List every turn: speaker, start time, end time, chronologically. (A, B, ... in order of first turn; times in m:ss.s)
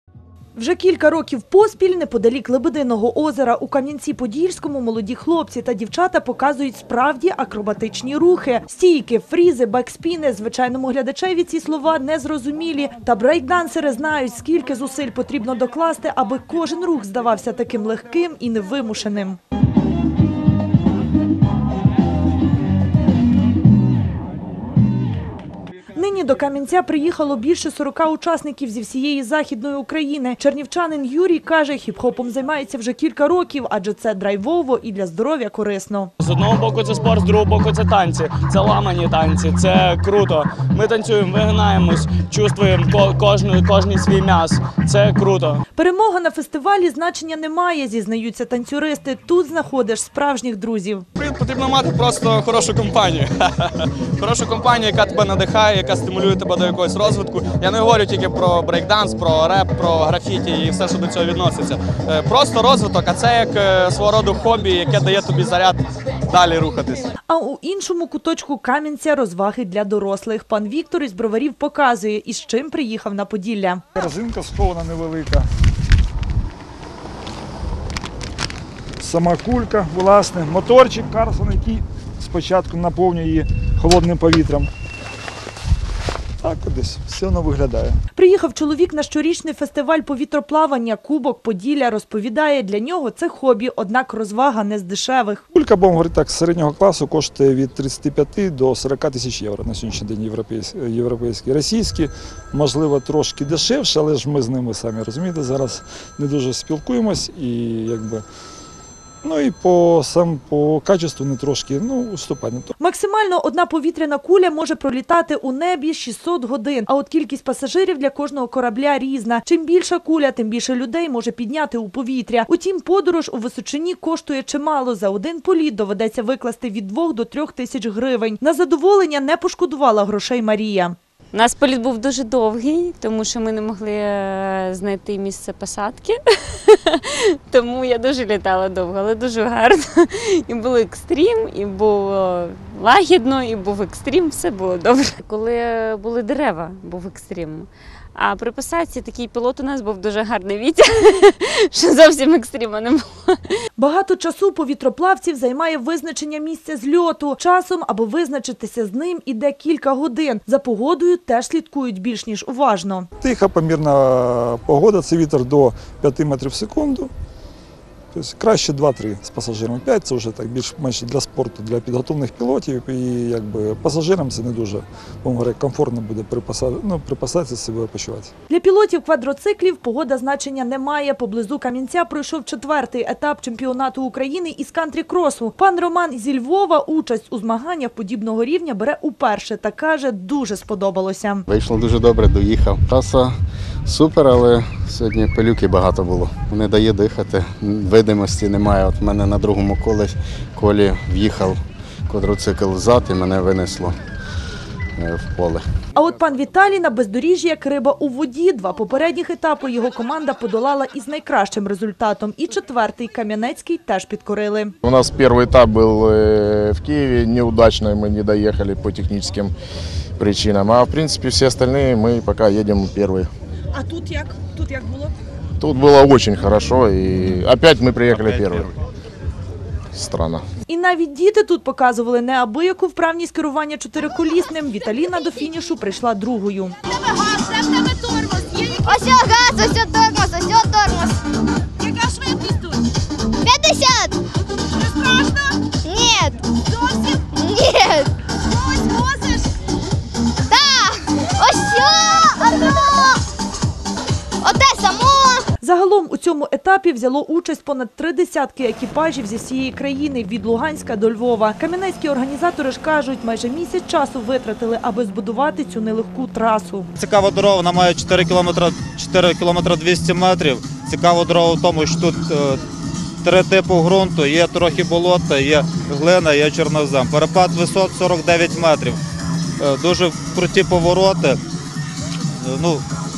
0:00.6-0:19.4 A
0:26.0-0:36.1 A
0:36.3-0:45.6 B
0:38.5-0:39.0 C
0:45.8-0:51.1 A
0:51.2-1:07.1 C
1:07.3-1:13.9 A
1:14.0-1:15.5 D
1:19.0-1:24.7 D
1:26.4-1:28.0 D
1:28.2-1:35.4 A
1:35.5-1:48.2 D
1:49.2-1:52.7 D
1:52.8-2:11.0 A
2:11.3-2:33.4 E
2:33.8-2:43.1 A
2:43.2-2:47.1 D
2:48.1-2:58.3 D
2:58.5-3:11.4 A
3:11.5-3:13.4 F
3:13.9-3:24.0 F
3:25.0-3:25.6 F
3:26.0-3:34.7 A
3:34.8-3:39.5 G
3:40.2-3:43.3 G
3:45.6-3:48.7 G
3:48.1-3:48.7 H
3:49.9-3:50.4 G
3:50.7-3:56.8 A
3:56.9-4:01.2 I
4:03.4-4:04.2 I
4:05.8-4:08.1 I
4:08.8-4:09.3 I
4:10.5-4:13.2 I
4:14.4-4:15.4 I
4:15.6-4:26.9 A
4:27.0-4:32.6 H
4:33.2-4:39.0 H
4:39.6-4:41.4 H
4:42.4-4:42.8 H